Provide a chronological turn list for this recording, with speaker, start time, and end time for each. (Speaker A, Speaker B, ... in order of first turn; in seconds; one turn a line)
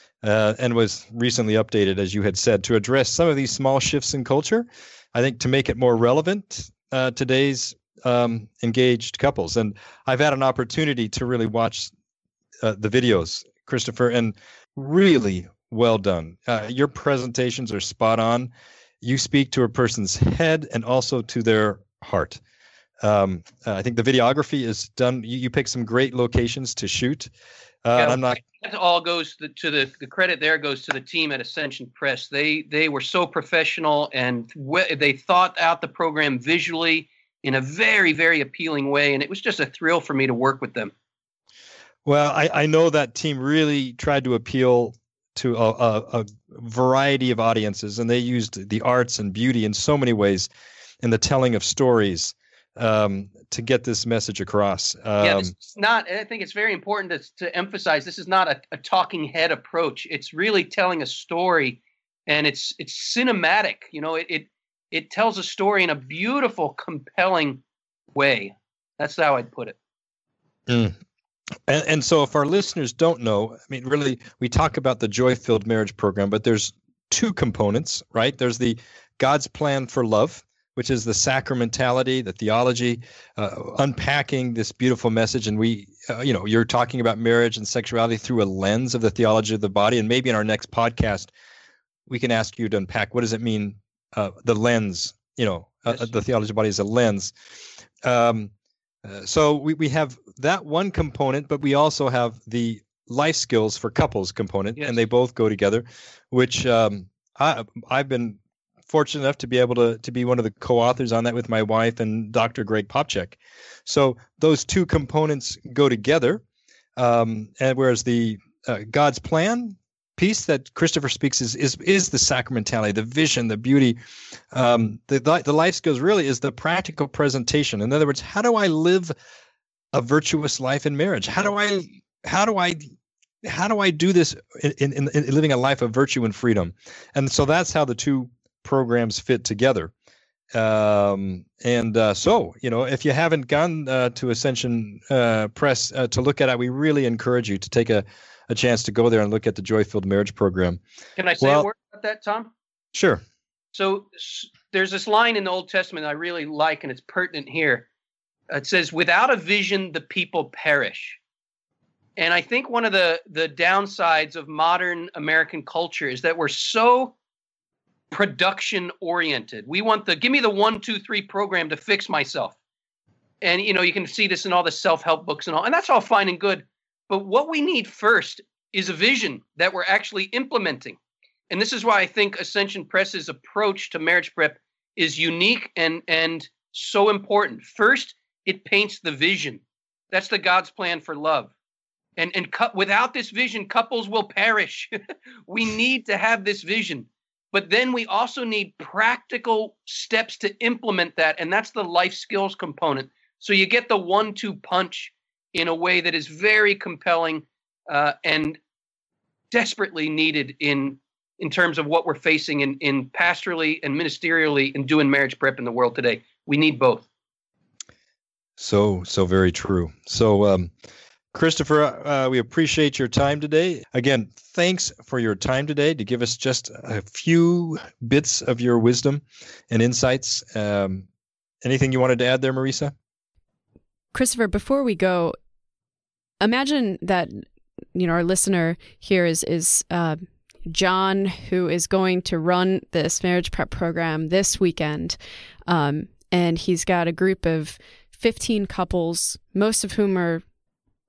Speaker A: 0.2-11.9
Speaker A: 12.6-18.5
Speaker A: 19.0-22.4
Speaker A: 23.0-27.3
Speaker A: 27.8-28.4
Speaker B: 28.0-40.9
Speaker A: 42.0-50.5
Speaker A: 51.0-55.5
Speaker B: 55.2-67.6
Speaker B: 68.1-69.8
Speaker A: 70.7-71.0
Speaker A: 71.7-91.3
Speaker A: 92.1-97.3
Speaker A: 98.0-98.5
Speaker A: 99.0-116.4
Speaker B: 104.8-105.0
Speaker A: 117.0-124.0
Speaker A: 124.5-129.1
Speaker A: 129.9-132.8
Speaker A: 133.4-139.9
Speaker A: 140.5-150.8
Speaker B: 151.2-152.5
Speaker A: 151.4-151.7
Speaker A: 152.9-153.2
Speaker B: 153.7-157.9
Speaker B: 158.5-161.2
Speaker B: 162.2-167.1
Speaker B: 168.1-172.5
Speaker B: 173.4-181.0
Speaker B: 181.5-191.5
Speaker B: 192.2-194.9
Speaker B: 195.5-208.6
Speaker B: 209.5-217.1
Speaker A: 218.6-220.7
Speaker A: 221.3-231.1
Speaker A: 231.6-232.9
Speaker C: 234.1-235.3
Speaker C: 236.4-250.4